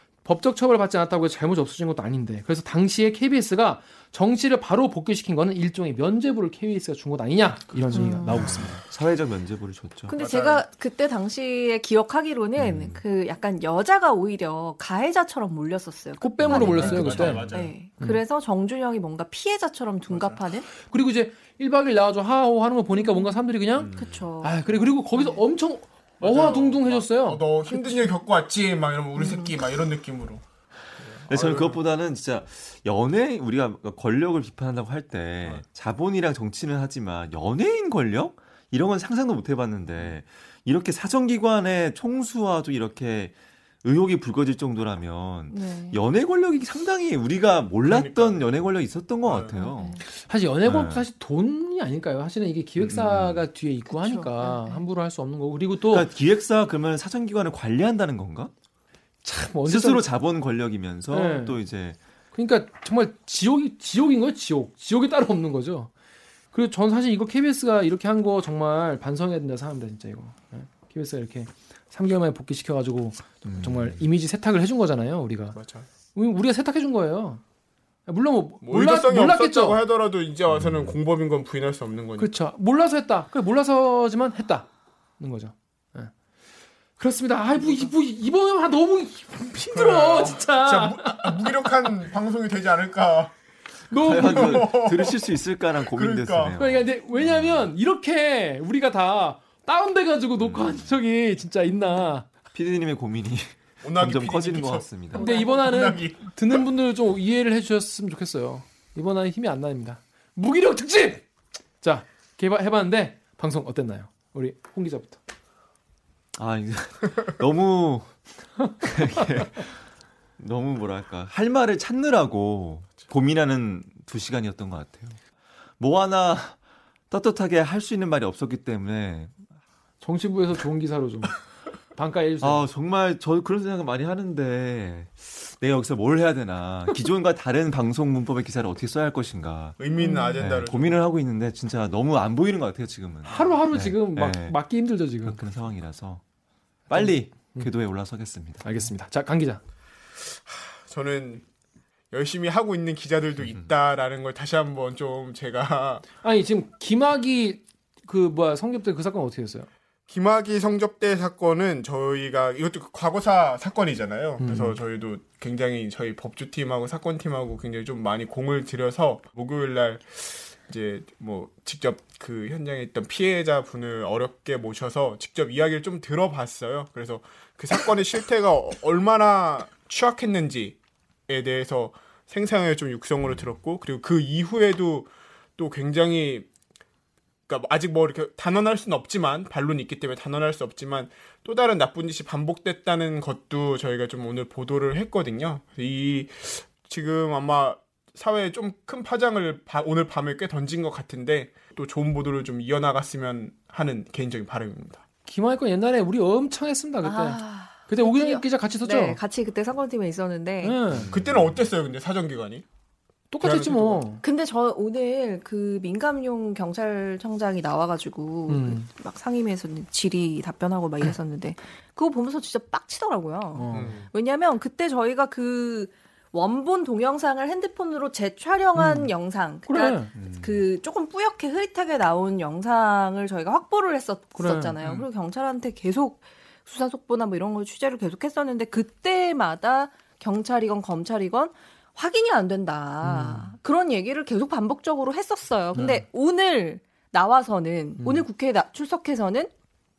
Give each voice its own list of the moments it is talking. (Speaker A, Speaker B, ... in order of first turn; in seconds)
Speaker A: 0.2-8.8, 16.2-18.2, 20.8-27.5, 50.0-56.1, 59.2-60.1, 61.1-61.6, 62.3-65.9, 66.5-75.6, 76.1-77.4, 78.1-79.8, 82.2-84.7, 85.2-86.1, 87.0-91.7, 93.9-94.8, 96.6-102.3, 105.2-111.2, 111.8-115.2, 130.0-131.4, 131.9-132.6, 143.3-145.4, 146.9-147.7, 148.6-149.6, 156.2-159.7, 164.4-164.8, 205.3-209.2, 210.6-211.1, 213.3-214.2, 218.5-218.9, 223.5-224.0, 228.7-229.1, 229.7-230.1, 234.3-234.7, 243.0-243.5, 245.7-246.0, 248.0-248.2
Speaker B: 7.9-8.5, 10.1-20.7, 22.9-23.4, 23.9-24.6, 25.1-25.4, 27.7-28.1, 29.2-29.5, 45.5-46.0, 49.5-50.0, 53.9-54.8, 105.2-105.6, 140.0-140.4, 207.0-210.8, 214.2-249.5
Speaker C: 8.2-10.2, 12.6-13.0, 16.5-16.7, 17.2-17.6, 23.8-24.3, 31.3-50.0, 50.6-51.0, 52.8-53.5, 55.9-58.5, 59.6-62.0, 73.4-74.0, 80.5-81.0, 94.0-97.7, 100.4-101.0, 102.5-105.2, 116.3-118.2, 118.8-119.8, 120.4-125.2, 125.8-126.6, 127.1-129.4, 132.4-139.8, 140.4-144.6, 145.2-146.2, 146.9-148.6, 210.9-211.7, 230.2-230.6
Speaker D: 10.1-10.6, 16.5-17.7, 26.2-30.4, 31.0-31.8, 47.8-48.5, 49.2-49.6, 75.5-75.9, 78.6-82.3, 89.7-93.3, 94.2-95.3, 95.9-96.6, 103.8-106.3, 139.8-141.0, 150.4-151.4, 152.1-156.0, 160.1-180.8, 181.3-186.5, 187.5-205.0, 211.0-212.6, 213.4-214.1, 223.7-224.1